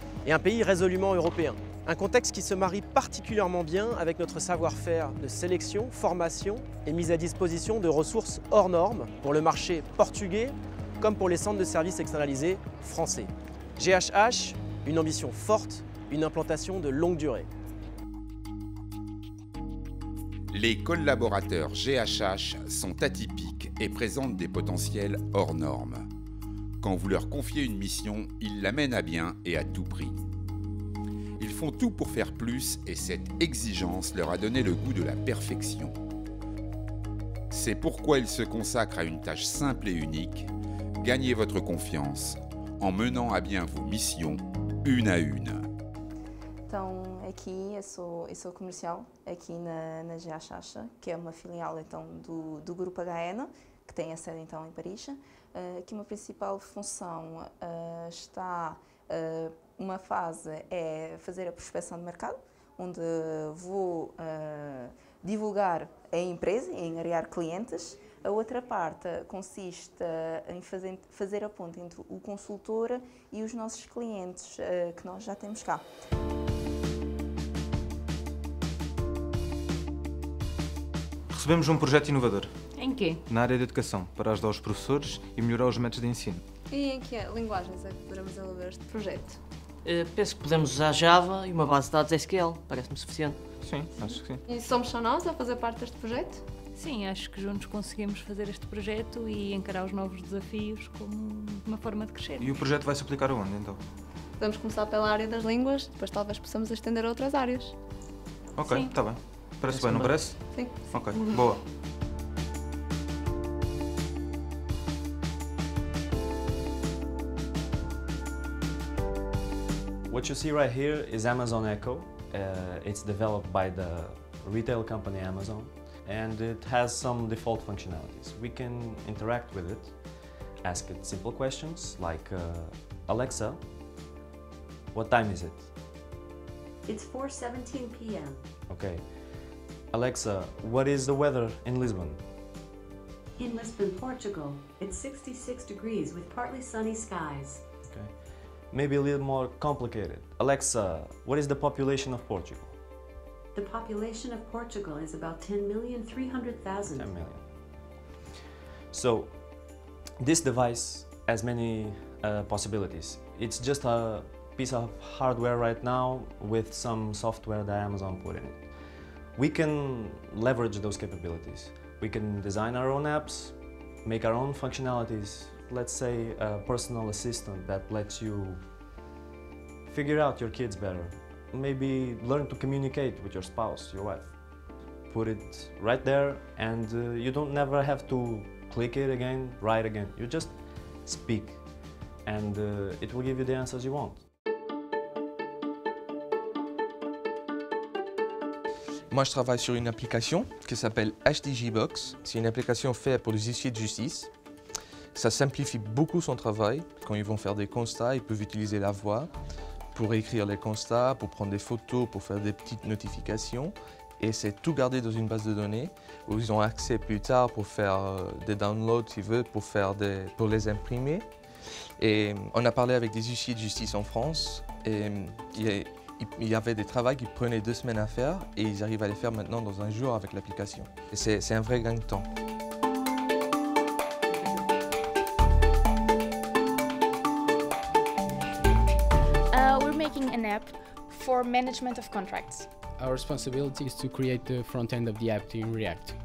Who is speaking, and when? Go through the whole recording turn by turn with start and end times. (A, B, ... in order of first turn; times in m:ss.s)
0:00.2-0:17.5 A
0:20.5-0:26.0 B
0:26.8-0:30.2 B
0:31.4-0:35.9 B
0:37.5-0:45.6 B
0:46.7-1:15.8 C
1:21.3-1:22.5 D
1:22.8-1:23.2 E
1:23.2-1:26.4 D
1:26.7-1:29.4 F
1:29.8-1:33.4 G
1:33.6-1:34.4 D
1:34.5-1:36.4 F
1:36.7-1:42.7 E
1:42.4-1:43.8 D
1:44.4-1:47.7 F
1:48.6-1:51.6 D
1:48.6-1:49.0 E
1:50.5-1:50.8 F
2:00.1-2:13.6 H
2:14.9-2:15.7 H
2:16.8-2:18.4 I
2:18.7-2:19.2 H
2:19.9-2:22.2 H
2:23.4-2:27.6 I
2:27.8-2:28.1 H
2:28.7-2:32.8 H
2:33.5-2:37.1 I
2:36.8-2:37.4 H
2:38.9-2:48.7 H
2:49.3-2:58.6 H
2:59.9-3:04.4 H
3:05.1-3:14.2 H
3:19.1-3:24.3 J
3:25.1-3:29.3 J
3:29.9-3:41.2 J
3:42.0-3:52.2 J
3:59.5-4:02.7 K
4:03.0-4:06.2 L